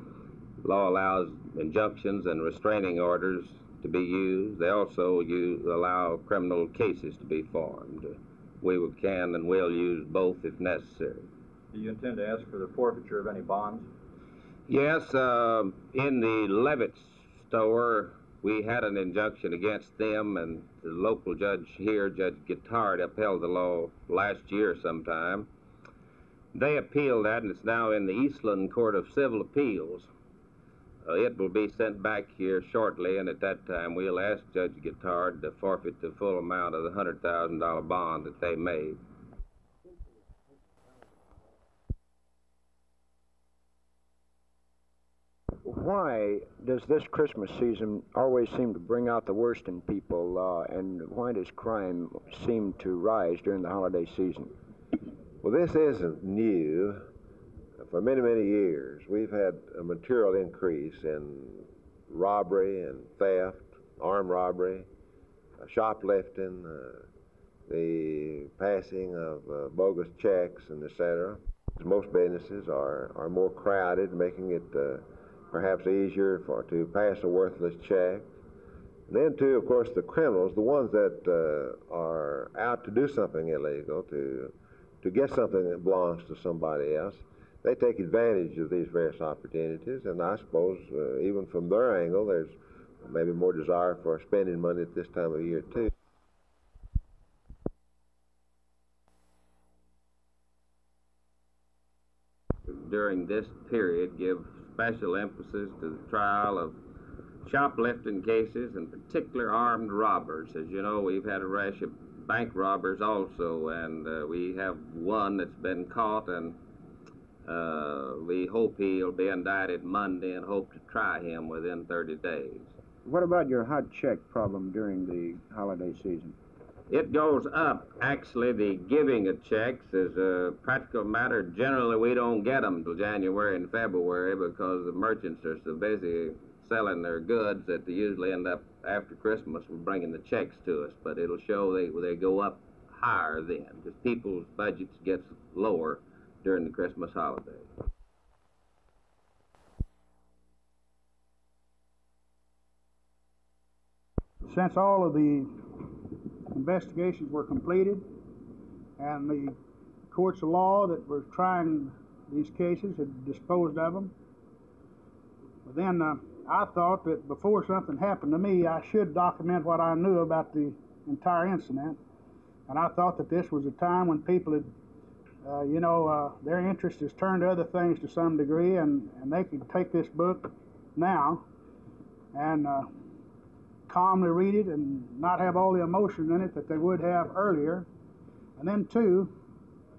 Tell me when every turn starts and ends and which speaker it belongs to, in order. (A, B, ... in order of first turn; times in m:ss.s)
0:00.6-0:11.3 A
0:11.7-0:13.9 B
0:14.7-0:25.5 A
0:26.5-0:30.1 A
0:31.0-0:39.0 A
0:45.6-0:54.5 C
0:55.4-0:57.0 D
0:57.8-1:04.9 D
1:05.6-1:07.1 D
1:07.7-1:18.3 D
1:19.1-1:35.9 D
1:42.7-1:46.8 A
1:47.4-1:56.6 A
1:57.4-2:02.7 A
2:03.0-2:06.4 C
2:06.9-2:27.7 A
2:34.5-2:36.0 E
2:36.5-2:38.0 E
2:39.0-2:39.6 E
2:40.1-2:44.1 E
2:45.7-2:52.0 E
2:52.7-2:54.7 E
2:55.4-3:01.5 E
3:02.3-3:02.9 E
3:03.9-3:07.9 E
3:08.6-3:09.3 E